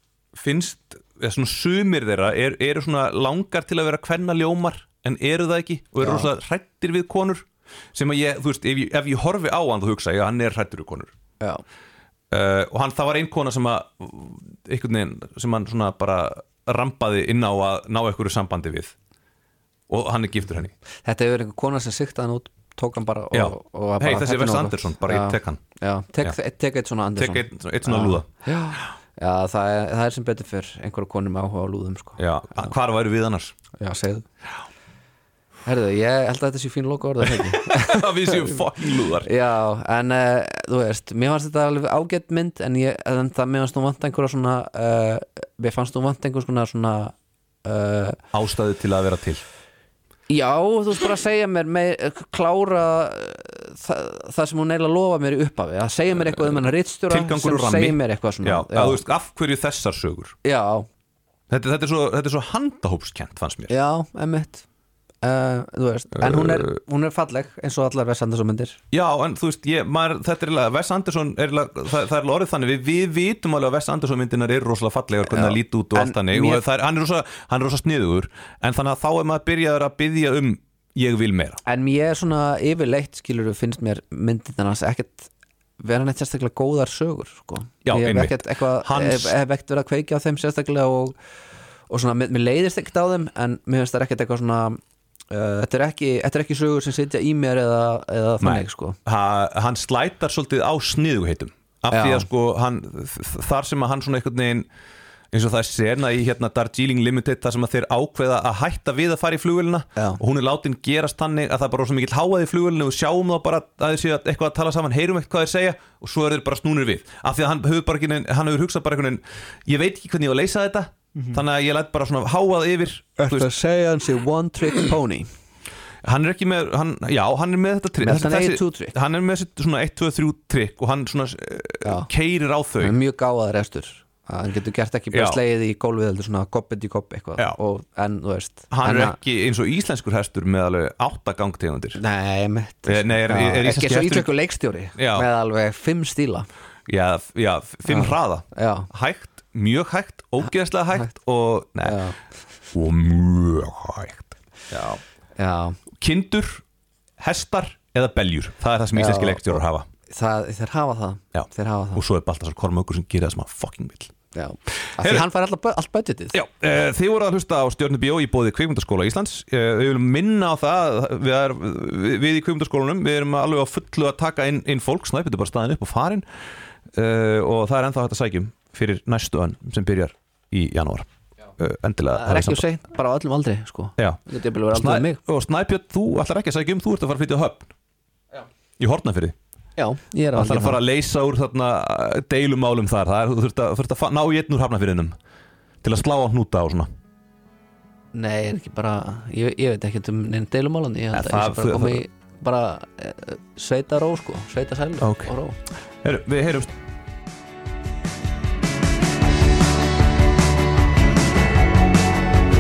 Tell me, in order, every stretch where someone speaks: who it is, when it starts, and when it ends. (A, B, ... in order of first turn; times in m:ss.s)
0:00.4-0:11.1 A
0:06.0-0:06.3 B
0:12.3-0:18.9 A
0:19.9-0:20.7 A
0:21.0-0:32.7 B
0:23.3-0:25.6 A
0:27.2-0:28.3 A
0:32.2-0:33.6 A
0:33.8-0:34.3 B
0:35.7-0:48.2 B
0:37.2-0:39.3 A
0:48.3-0:49.4 A
0:50.3-0:59.0 B
0:56.6-1:00.4 A
1:00.4-1:00.9 B
1:01.5-1:03.7 A
1:03.7-1:04.6 B
1:05.2-1:08.8 B
1:06.2-1:06.8 A
1:08.9-1:21.6 A
1:15.3-1:16.6 B
1:21.6-1:31.2 B
1:27.8-1:29.4 A
1:31.9-1:34.8 B
1:35.3-1:39.0 B
1:38.4-1:44.7 A
1:41.9-1:42.3 B
1:45.3-2:03.5 A
2:03.2-2:05.3 B
2:06.0-2:13.0 A
2:08.0-2:09.0 B
2:11.8-2:12.1 B
2:12.8-2:19.2 B
2:15.1-2:15.4 A
2:18.7-2:22.0 A
2:22.0-2:26.5 B
2:22.9-2:24.3 A
2:25.0-2:25.3 A
2:26.9-2:32.0 A
2:27.9-2:28.9 B
2:31.8-2:32.2 B
2:32.7-2:35.0 A
2:35.4-2:35.8 B
2:36.0-2:36.6 A
2:37.2-2:39.9 A
2:39.0-2:42.0 B
2:41.4-2:44.2 A
2:44.3-2:46.4 B
2:44.8-2:45.2 A
2:46.3-2:56.2 A
2:56.9-3:02.6 A
3:02.1-3:05.2 B
3:04.0-3:07.7 A
3:08.8-3:09.4 A
3:09.8-3:10.8 B
3:10.4-3:15.2 A
3:15.8-3:16.9 A
3:18.1-3:25.6 B
3:21.1-3:22.0 A
3:25.0-3:25.3 A
3:26.0-3:26.7 A